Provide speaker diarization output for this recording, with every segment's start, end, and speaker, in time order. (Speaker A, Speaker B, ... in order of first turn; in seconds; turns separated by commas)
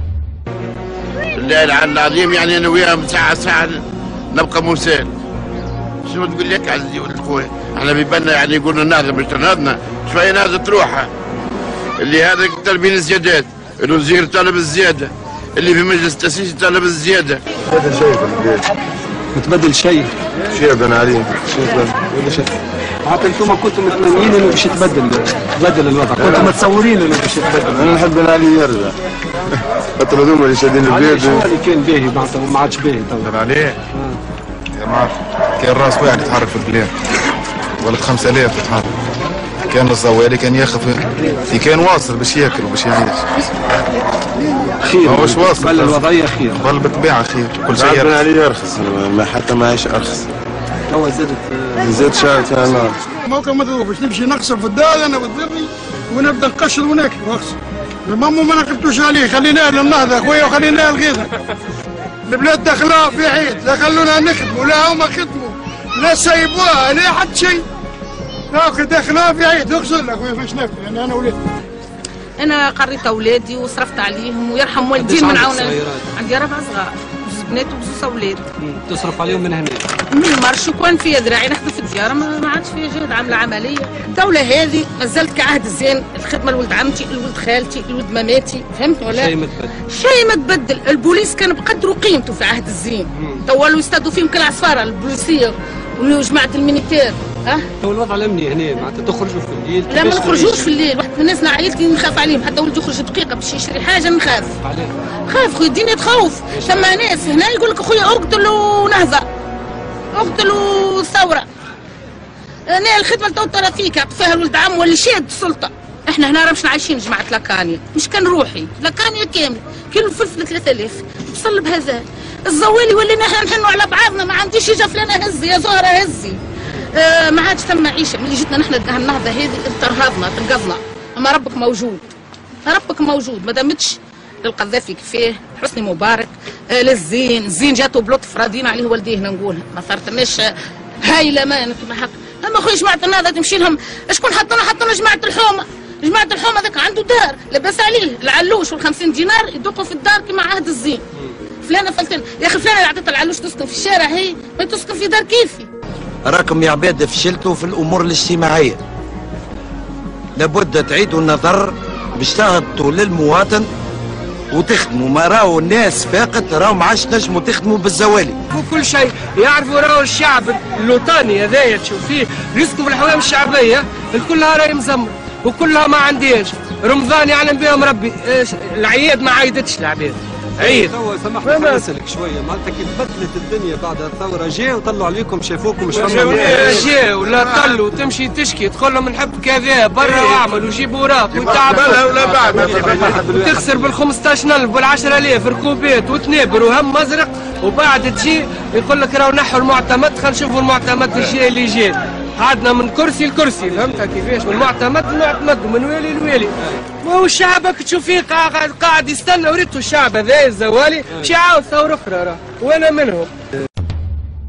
Speaker A: 1.4-3.8, Speaker A: 4.3-5.1, Speaker A: 6.0-11.1, Speaker A: 12.0-17.4, Speaker B: 17.7-18.6, Speaker C: 19.4-20.1, Speaker B: 20.5-22.5, Speaker C: 23.1-27.9, Speaker B: 26.2-26.6, Speaker B: 27.7-29.0, Speaker B: 30.0-31.4, Speaker C: 30.8-33.3, Speaker D: 33.2-33.8, Speaker C: 33.9-34.2, Speaker D: 34.8-36.9, Speaker D: 37.8-39.0, Speaker D: 39.6-43.5, Speaker C: 44.8-46.7, Speaker D: 45.0-48.2, Speaker B: 47.7-50.3, Speaker C: 50.9-52.0, Speaker B: 51.8-53.0, Speaker E: 53.2-61.3, Speaker E: 62.3-67.6, Speaker E: 68.5-71.4, Speaker F: 72.4-78.4, Speaker C: 75.0-76.1, Speaker C: 78.6-79.8, Speaker F: 80.1-89.3, Speaker C: 89.1-89.8, Speaker F: 89.9-97.7, Speaker C: 93.2-93.4, Speaker C: 97.8-100.8, Speaker F: 99.9-104.6, Speaker C: 104.6-104.9, Speaker F: 105.3-109.3, Speaker C: 106.5-107.0, Speaker F: 110.1-111.5, Speaker F: 112.7-132.0, Speaker F: 132.7-151.0, Speaker F: 151.6-155.7, Speaker G: 156.3-158.8, Speaker G: 160.4-163.7, Speaker G: 164.5-168.4, Speaker H: 168.5-181.9, Speaker C: 180.6-186.8, Speaker H: 185.9-192.1, Speaker A: 186.5-187.4, Speaker C: 190.1-190.4, Speaker C: 191.6-193.9, Speaker H: 192.7-213.3, Speaker C: 203.6-204.1, Speaker C: 206.6-206.8